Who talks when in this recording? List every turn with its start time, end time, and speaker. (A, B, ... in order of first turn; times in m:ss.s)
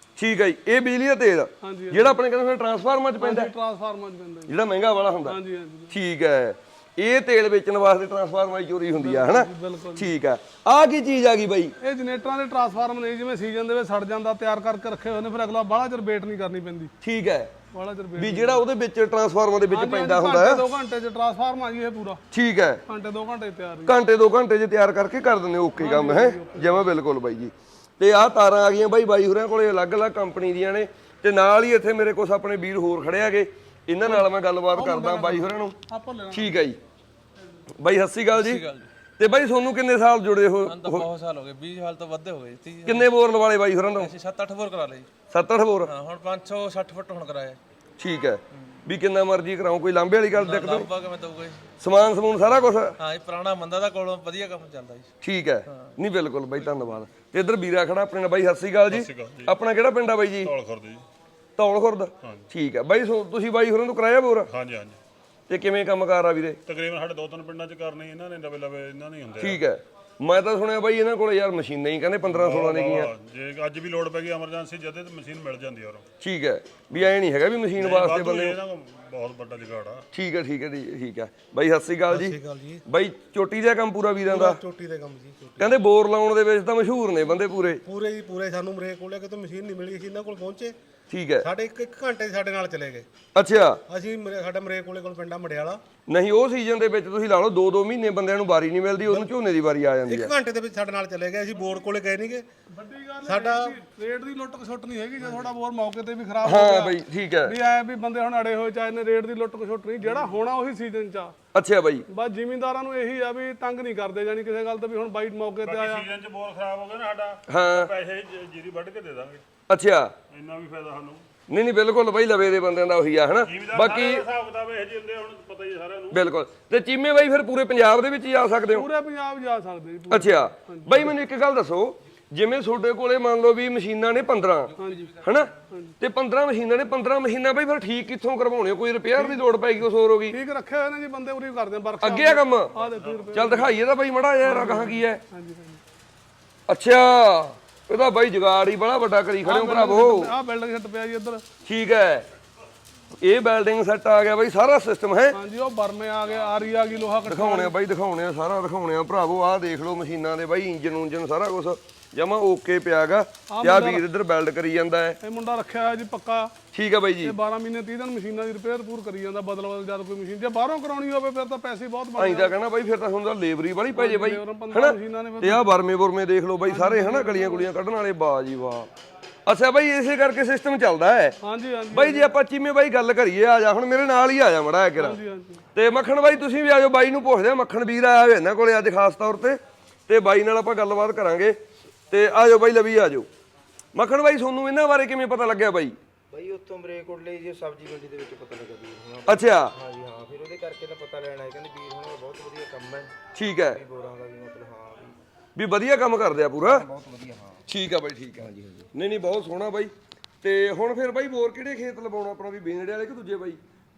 0:00.2-0:03.5 A
0:01.6-0:02.2 B
0:03.2-0:04.5 B
0:04.5-0:05.4 A
0:05.2-0:05.9 B
0:05.9-0:11.7 A
0:08.9-0:10.1 B
0:11.8-0:16.9 B
0:17.0-0:17.5 A
0:17.7-0:18.6 B
0:18.2-0:20.6 A
0:19.7-0:22.2 B
0:22.3-0:22.8 A
0:22.9-0:23.9 B
0:23.8-0:35.8 A
0:25.8-0:26.9 B
0:34.0-0:36.6 B
0:36.3-0:36.8 A
0:37.8-0:38.6 A
0:38.3-0:38.9 C
0:39.2-0:41.1 A
0:40.6-0:43.1 C
0:42.8-0:44.1 A
0:43.9-0:45.1 C
0:45.3-0:45.9 A
0:45.8-0:47.6 C
0:48.0-0:50.9 A
0:50.3-0:51.7 C
0:51.8-0:52.9 A
0:53.0-0:55.1 C
0:55.2-1:00.5 A
0:58.9-0:59.6 D
1:00.4-1:01.0 D
1:01.6-1:04.5 A
1:04.5-1:05.0 D
1:05.5-1:06.6 A
1:06.6-1:09.6 D
1:09.4-1:13.1 A
1:12.3-1:16.0 D
1:16.2-1:18.6 A
1:17.8-1:20.0 D
1:20.1-1:24.6 A
1:22.1-1:22.8 E
1:24.2-1:25.7 E
1:25.6-1:27.8 A
1:27.8-1:30.8 E
1:31.1-1:31.5 A
1:31.4-1:33.1 E
1:33.3-1:33.8 A
1:33.8-1:35.8 E
1:36.1-1:40.3 A
1:40.0-1:42.5 E
1:42.7-1:51.3 B
1:43.2-1:43.7 E
1:46.4-1:47.6 A
1:51.5-1:52.0 A
1:52.1-1:56.0 B
1:55.6-1:59.4 D
1:57.5-1:57.9 A
1:59.7-2:00.1 A
2:00.3-2:01.2 D
2:01.5-2:04.2 A
2:03.4-2:06.3 D
2:06.1-2:08.9 A
2:08.7-2:11.1 B
2:10.1-2:20.4 A
2:14.8-2:15.1 B
2:15.7-2:16.0 B
2:20.3-2:23.7 B
2:22.0-2:22.7 A
2:22.8-2:23.3 D
2:23.3-2:25.2 A
2:24.4-2:25.8 B
2:26.7-2:30.3 A
2:29.4-2:31.4 B
2:31.6-2:32.2 A
2:33.2-2:35.4 A
2:35.3-2:37.7 B
2:37.2-2:45.2 A
2:43.5-2:44.0 B
2:45.2-2:46.5 B
2:46.7-2:47.4 A
2:47.2-2:52.5 B
2:52.2-2:58.9 A
2:54.0-2:55.7 B
2:56.6-2:57.7 B
2:59.4-3:01.4 A
3:01.4-3:02.3 B
3:01.9-3:05.2 A
3:05.0-3:05.6 B
3:05.7-3:11.6 A
3:12.1-3:13.3 A
3:13.9-3:16.0 A
3:16.3-3:25.1 F
3:19.3-3:19.7 A
3:23.3-3:23.8 A
3:25.6-3:26.8 A
3:26.6-3:27.6 F
3:27.7-3:33.6 A
3:28.4-3:28.9 F